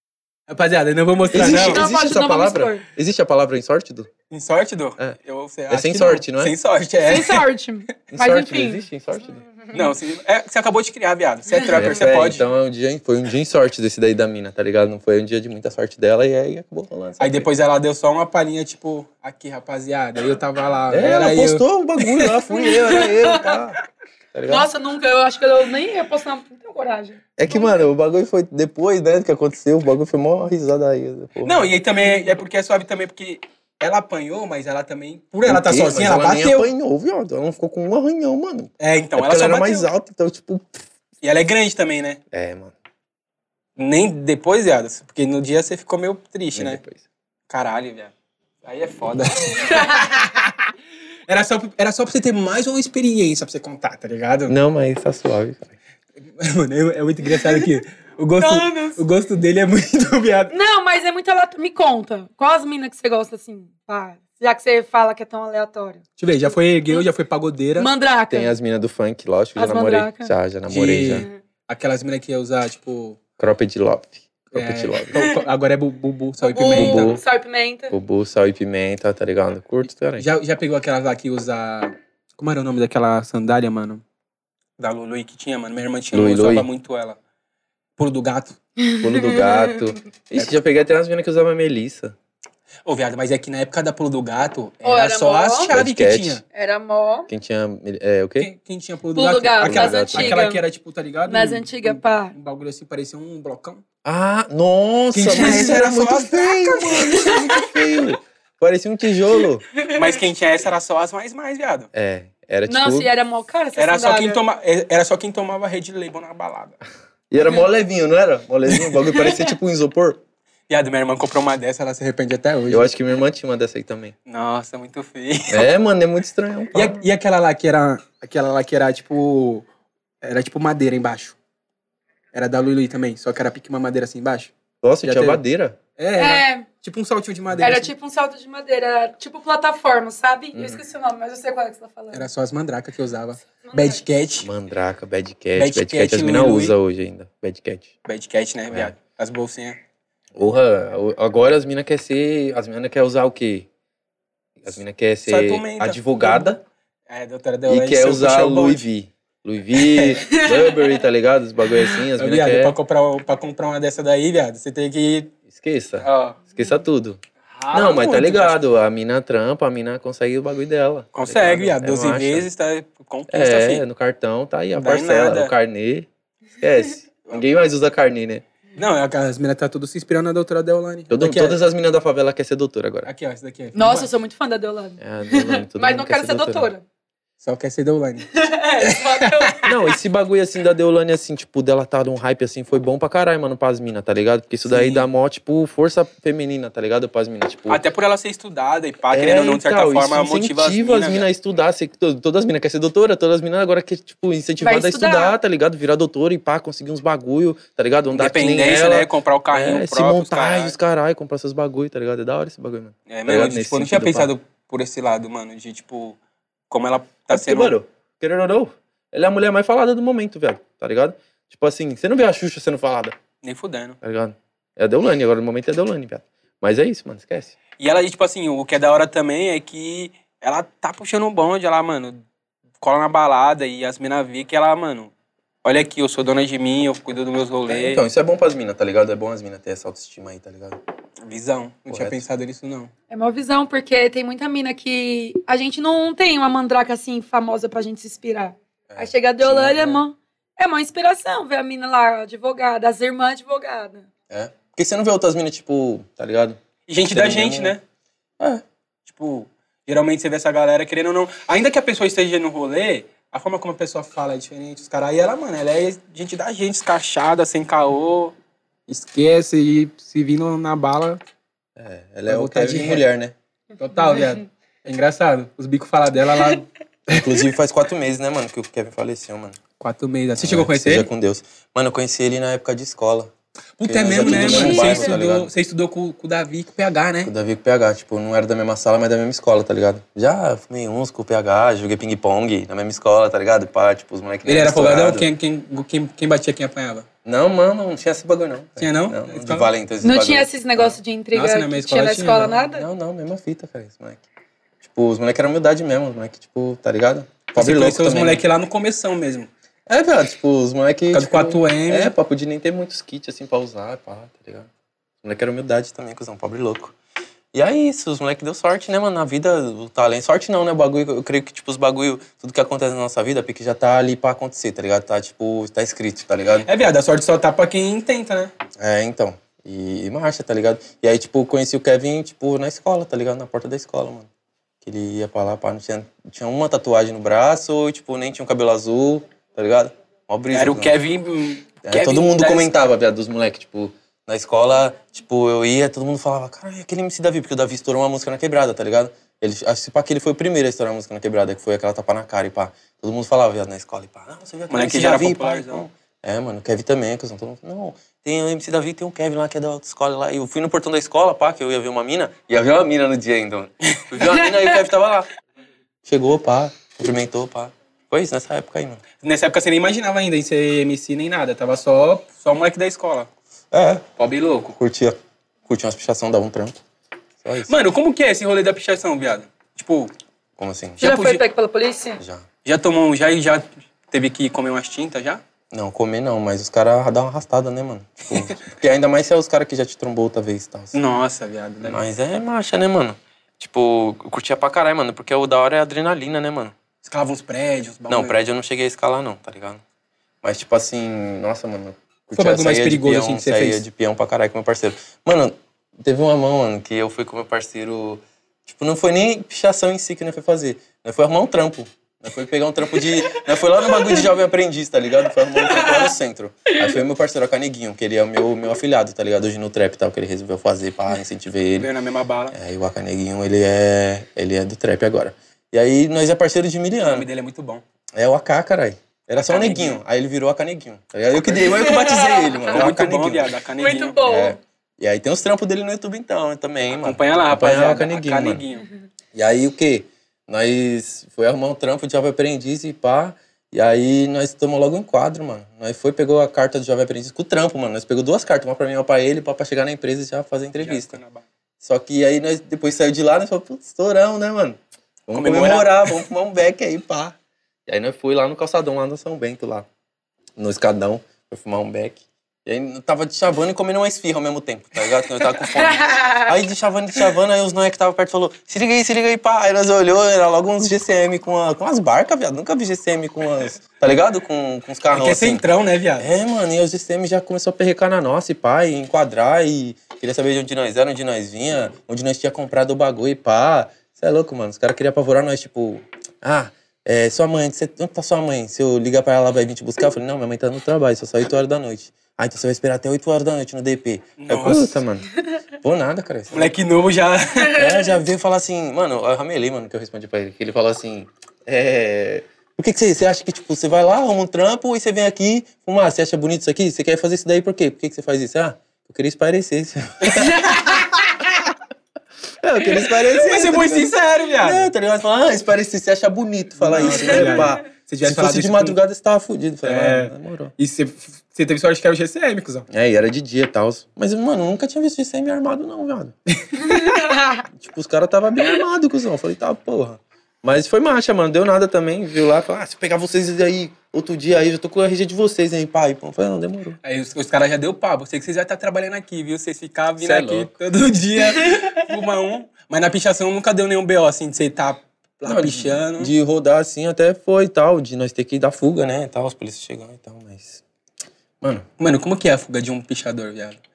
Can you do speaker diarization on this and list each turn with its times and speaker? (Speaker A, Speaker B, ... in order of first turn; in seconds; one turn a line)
Speaker A: 0.5-1.9
Speaker B: 1.3-2.9
Speaker C: 1.3-4.1
Speaker A: 4.3-7.5
Speaker C: 5.7-6.5
Speaker B: 7.0-8.8
Speaker C: 8.1-9.4
Speaker A: 9.7-12.4
Speaker B: 11.5-11.9
Speaker C: 11.7-17.5
Speaker A: 17.2-22.3
Speaker C: 20.9-23.8
Speaker B: 22.5-23.6
Speaker C: 24.3-24.7
Speaker B: 24.5-27.8
Speaker C: 27.4-31.7
Speaker A: 31.4-36.7
Speaker C: 35.5-40.8
Speaker A: 38.8-39.9
Speaker A: 41.2-42.2
Speaker C: 42.3-42.7
Speaker A: 43.8-46.8
Speaker C: 46.5-47.0
Speaker A: 47.5-50.5
Speaker B: 49.7-50.1
Speaker A: 51.3-54.6
Speaker C: 54.5-55.8
Speaker A: 56.4-60.5
Speaker B: 57.3-57.7
Speaker B: 58.4-59.0
Speaker B: 60.5-66.0
Speaker A: 66.2-67.9
Speaker B: 67.8-68.5
Speaker C: 68.3-71.3
Speaker B: 69.6-70.3
Speaker A: 70.7-73.2
Speaker C: 73.4-75.1
Speaker A: 74.5-77.2
Speaker B: 75.2-75.4
Speaker B: 76.4-78.0
Speaker C: 76.7-77.2
Speaker C: 77.9-80.3
Speaker A: 80.2-84.0
Speaker A: 84.8-87.2
Speaker C: 86.1-86.7
Speaker A: 88.0-88.6
Speaker B: 88.8-89.8
Speaker C: 89.0-92.2
Speaker A: 92.9-96.4
Speaker B: 94.8-95.7
Speaker C: 95.7-96.4
Speaker B: 96.5-97.3
Speaker C: 97.3-98.5
Speaker A: 98.4-103.8
Speaker B: 99.2-100.6
Speaker C: 99.6-100.4
Speaker B: 101.3-102.3
Speaker C: 104.0-109.7
Speaker A: 105.1-107.1
Speaker B: 105.4-105.8
Speaker B: 106.7-107.8
Speaker B: 109.8-110.2
Speaker A: 109.9-111.9
Speaker C: 111.9-113.1
Speaker B: 112.7-114.4
Speaker A: 113.8-116.8
Speaker C: 117.3-120.2
Speaker B: 119.2-119.5
Speaker A: 120.7-122.9
Speaker C: 122.7-124.1
Speaker A: 124.3-125.7
Speaker C: 125.5-127.1
Speaker A: 126.7-129.7
Speaker A: 130.2-131.4
Speaker A: 132.3-135.4
Speaker C: 134.8-135.8
Speaker A: 136.0-137.9
Speaker B: 136.2-136.7
Speaker B: 137.6-142.3
Speaker C: 140.5-140.8
Speaker A: 142.1-144.5
Speaker B: 143.6-144.0
Speaker C: 144.4-147.9
Speaker A: 145.6-146.8
Speaker A: 148.1-149.8
Speaker C: 150.3-153.7
Speaker C: 154.6-156.6
Speaker A: 155.2-156.5
Speaker A: 157.1-158.9
Speaker C: 157.7-162.8
Speaker A: 159.8-160.2
Speaker B: 160.2-160.9
Speaker A: 162.2-165.3
Speaker C: 165.5-167.2
Speaker A: 166.0-166.4
Speaker A: 167.5-168.6
Speaker C: 167.7-172.5
Speaker A: 171.1-173.8
Speaker C: 173.3-176.1
Speaker A: 174.8-175.5
Speaker C: 176.6-178.4
Speaker A: 178.8-181.6
Speaker C: 181.1-183.1
Speaker A: 183.1-184.1
Speaker B: 183.8-186.8
Speaker C: 185.0-186.7
Speaker A: 187.4-189.6
Speaker B: 188.3-189.8
Speaker C: 189.6-197.8
Speaker A: 194.7-195.1
Speaker A: 197.7-201.3
Speaker C: 199.1-214.3
Speaker B: 204.6-205.3
Speaker A: 208.1-210.8
Speaker A: 213.1-216.2
Speaker A: 216.7-217.8
Speaker C: 217.3-223.2
Speaker A: 223.4-224.0
Speaker C: 224.0-227.6
Speaker A: 227.8-232.2
Speaker A: 232.8-235.1
Speaker A: 235.6-238.0
Speaker C: 237.7-240.8
Speaker A: 241.2-242.9
Speaker C: 241.9-242.2
Speaker B: 243.1-254.1
Speaker C: 248.9-250.0
Speaker C: 254.3-257.8
Speaker A: 256.9-257.8
Speaker A: 259.1-268.3
Speaker A: 268.9-271.2
Speaker C: 271.8-273.4
Speaker A: 272.3-273.0
Speaker A: 273.8-277.4
Speaker B: 274.0-274.4
Speaker C: 277.1-279.6
Speaker A: 279.8-281.1
Speaker C: 280.4-283.3
Speaker A: 283.8-287.3
Speaker C: 283.8-285.5
Speaker B: 284.2-285.1
Speaker C: 287.2-295.3
Speaker A: 294.5-297.1
Speaker C: 297.2-301.0
Speaker A: 298.8-299.7
Speaker B: 300.0-302.9
Speaker A: 301.3-302.6
Speaker C: 302.7-304.2
Speaker C: 304.8-308.4
Speaker A: 307.6-309.5
Speaker C: 309.9-314.7
Speaker A: 311.1-312.1
Speaker C: 315.2-316.9
Speaker C: 317.5-326.7
Speaker A: 326.6-328.5
Speaker C: 328.8-334.3
Speaker C: 334.8-340.9
Speaker A: 340.5-342.7
Speaker C: 341.8-365.3
Speaker A: 354.7-355.8
Speaker A: 363.9-364.1
Speaker C: 366.1-369.0
Speaker A: 369.2-373.3
Speaker C: 373.7-374.1
Speaker A: 374.2-374.8
Speaker C: 374.8-376.8
Speaker C: 377.4-377.7
Speaker A: 377.7-380.1
Speaker C: 380.6-381.0
Speaker A: 381.0-381.4
Speaker B: 381.0-382.2
Speaker C: 382.2-382.5
Speaker A: 382.6-385.4
Speaker C: 385.7-391.0
Speaker A: 388.3-388.6
Speaker A: 390.9-392.0
Speaker C: 391.8-396.7
Speaker A: 397.0-398.4
Speaker C: 398.1-399.8
Speaker C: 400.4-421.9
Speaker A: 402.4-403.9
Speaker B: 415.7-416.0
Speaker A: 421.8-422.6
Speaker C: 422.5-427.3
Speaker A: 427.0-427.8
Speaker C: 428.2-433.5
Speaker A: 429.4-430.0
Speaker A: 431.3-434.2
Speaker B: 431.9-432.6
Speaker B: 433.8-434.6
Speaker C: 434.2-438.6
Speaker A: 437.0-438.9
Speaker C: 439.3-451.2
Speaker A: 450.8-451.5
Speaker C: 451.8-457.4
Speaker A: 455.3-456.2
Speaker C: 457.9-459.9
Speaker C: 460.6-475.6
Speaker B: 466.1-466.4
Speaker A: 475.1-476.3
Speaker C: 476.2-495.3
Speaker A: 494.4-495.1
Speaker C: 495.8-496.7
Speaker A: 496.5-497.8
Speaker C: 497.7-511.1
Speaker A: 510.2-510.7
Speaker B: 510.6-511.2
Speaker C: 512.6-520.7
Speaker A: 513.2-514.9
Speaker A: 516.8-519.0
Speaker A: 519.8-522.9
Speaker C: 522.9-526.4
Speaker A: 526.7-527.3
Speaker B: 527.1-527.4
Speaker C: 527.7-537.0
Speaker A: 537.0-546.3
Speaker C: 540.2-540.7
Speaker C: 545.5-550.8
Speaker C: 551.6-551.9
Speaker A: 552.0-553.8